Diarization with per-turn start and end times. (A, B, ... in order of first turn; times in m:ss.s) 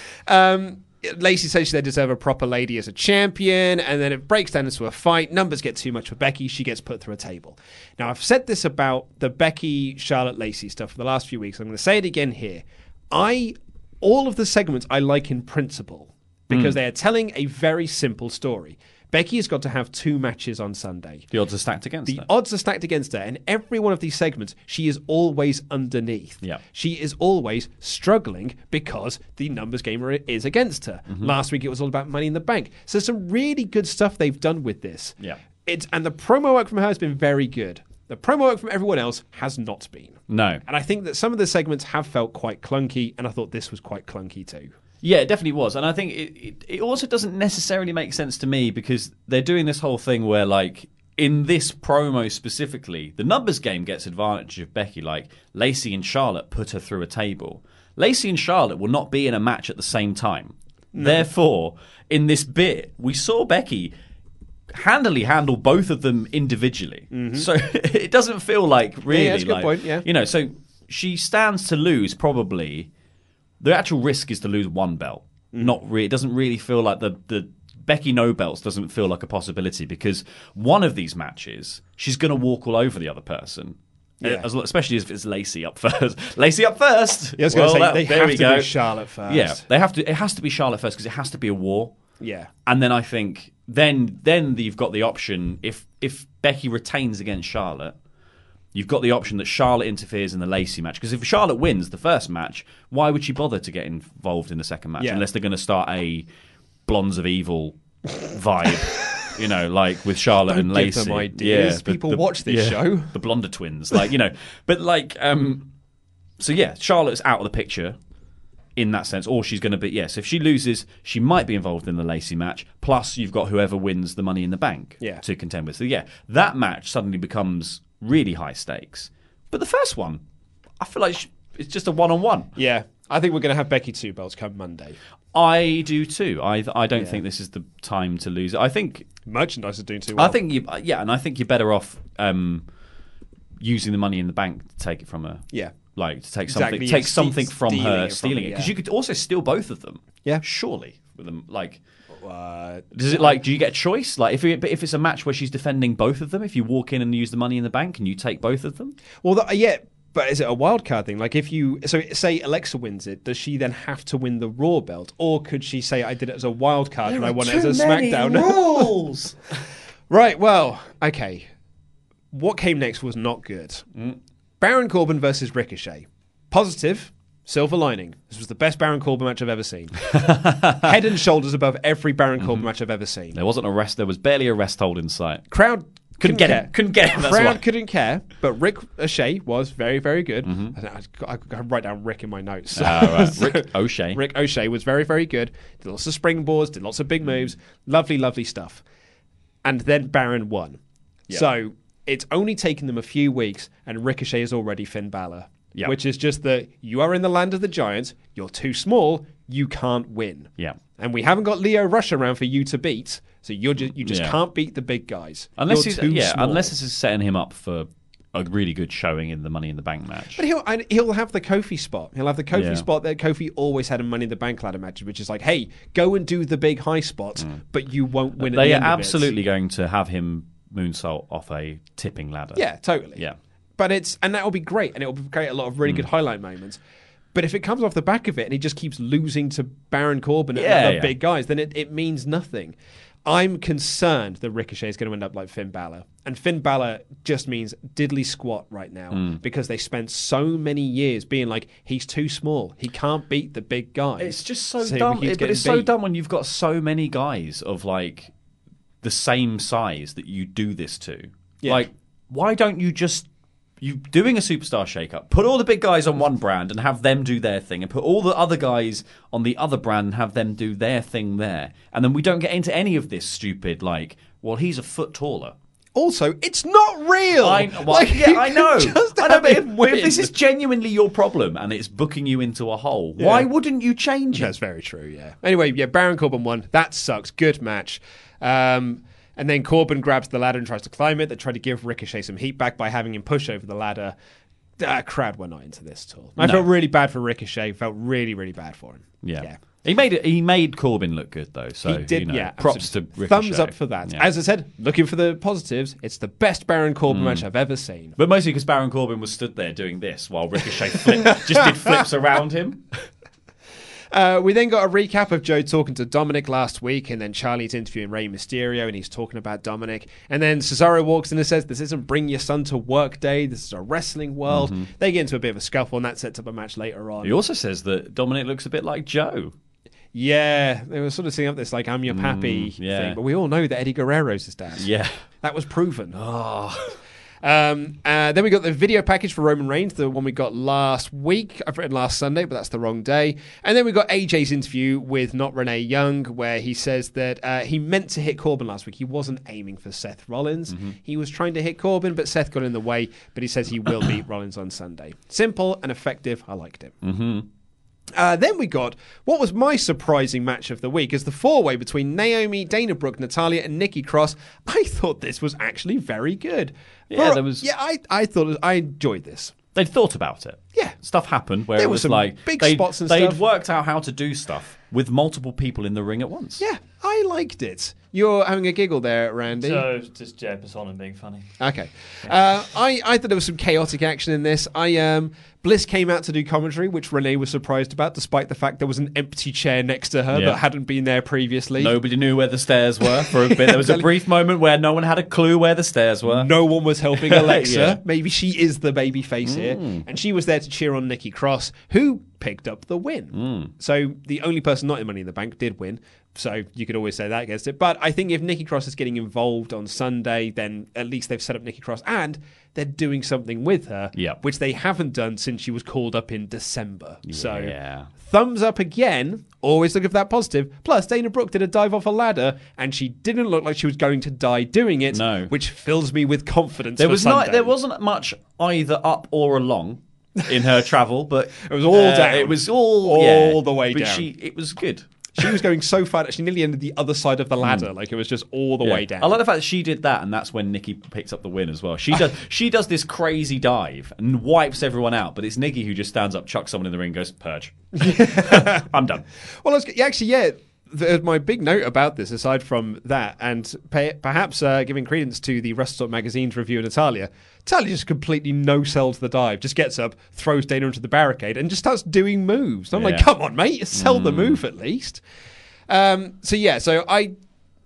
0:00.2-0:21.3 A
0:16.5-0:16.8 B
0:21.3-0:22.3 B
0:22.0-0:44.7 A
0:40.3-0:40.6 B
0:45.0-1:03.9 B
1:00.9-1:01.3 A
1:04.7-1:12.9 B
1:07.1-1:07.5 A
1:09.1-1:10.0 A
1:13.6-1:31.9 B
1:24.2-1:24.4 A
1:27.4-1:29.6 A
1:32.2-1:32.5 A
1:32.6-1:38.0 B
1:38.7-1:46.2 B
1:45.0-1:45.2 A
1:46.9-1:55.7 B
1:50.4-1:53.1 A
1:56.4-1:58.0 B
1:58.8-2:10.2 B
2:10.8-2:12.5 B
2:12.6-2:15.0 A
2:15.3-2:19.1 B
2:19.2-2:20.4 A
2:20.1-2:22.6 B
2:23.6-2:31.8 B
2:26.4-2:28.7 A
2:32.2-2:33.4 A
2:32.9-2:39.0 B
2:39.2-2:48.9 A
2:47.0-2:49.4 B
2:50.1-2:51.5 A
2:52.3-2:53.8 A
2:54.6-3:03.4 A
3:00.1-3:00.9 B
3:02.4-3:02.6 B
3:03.3-3:05.5 B
3:05.5-3:18.8 A
3:06.2-3:07.6 B
3:10.4-3:10.8 B
3:12.7-3:14.2 B
3:19.6-3:20.8 A
3:21.3-3:36.7 A
3:34.0-3:34.4 B
3:35.6-3:40.4 B
3:40.3-3:49.3 A
3:42.5-3:42.9 B
3:48.4-3:52.6 B
3:52.5-3:53.2 A
3:53.8-3:56.8 A
3:57.3-4:15.9 A
4:00.5-4:01.2 B
4:14.2-4:18.3 B
4:19.0-4:23.3 B
4:21.6-4:21.9 A
4:23.8-4:35.6 B
4:35.9-4:40.3 A
4:37.4-4:44.5 B
4:43.2-4:43.5 A
4:44.3-4:54.1 A
4:54.8-4:59.6 A
4:56.4-4:56.7 B
4:59.2-5:04.3 B
5:01.8-5:08.2 A
5:07.1-5:07.4 B
5:08.2-5:12.8 B
5:11.2-5:12.0 A
5:14.1-5:27.4 A
5:24.5-5:24.9 B
5:27.2-5:29.5 B
5:30.1-5:34.9 A
5:32.1-5:33.2 B
5:34.8-5:35.2 B
5:35.4-5:56.9 A
5:50.7-5:50.9 B
5:57.0-5:57.5 B
5:58.1-6:09.5 A
6:07.1-6:07.7 B
6:09.7-6:16.6 B
6:11.7-6:13.4 A
6:16.6-6:19.9 A
6:19.5-6:21.5 C
6:21.6-6:32.0 A
6:30.3-6:30.6 B
6:31.8-6:36.5 B
6:33.2-6:34.1 A
6:36.2-7:07.7 A
6:37.1-6:38.0 B
6:39.4-6:40.0 B
6:43.3-6:43.7 B
6:54.1-6:54.4 B
6:57.2-6:58.1 B
7:05.1-7:05.5 B
7:07.0-7:15.6 B
7:11.6-7:14.3 A
7:15.4-7:19.4 A
7:17.6-7:17.9 B
7:18.8-7:29.2 B
7:28.0-7:28.8 A
7:29.6-7:45.2 A
7:42.9-7:43.3 B
7:43.9-7:44.6 B
7:45.9-7:47.3 A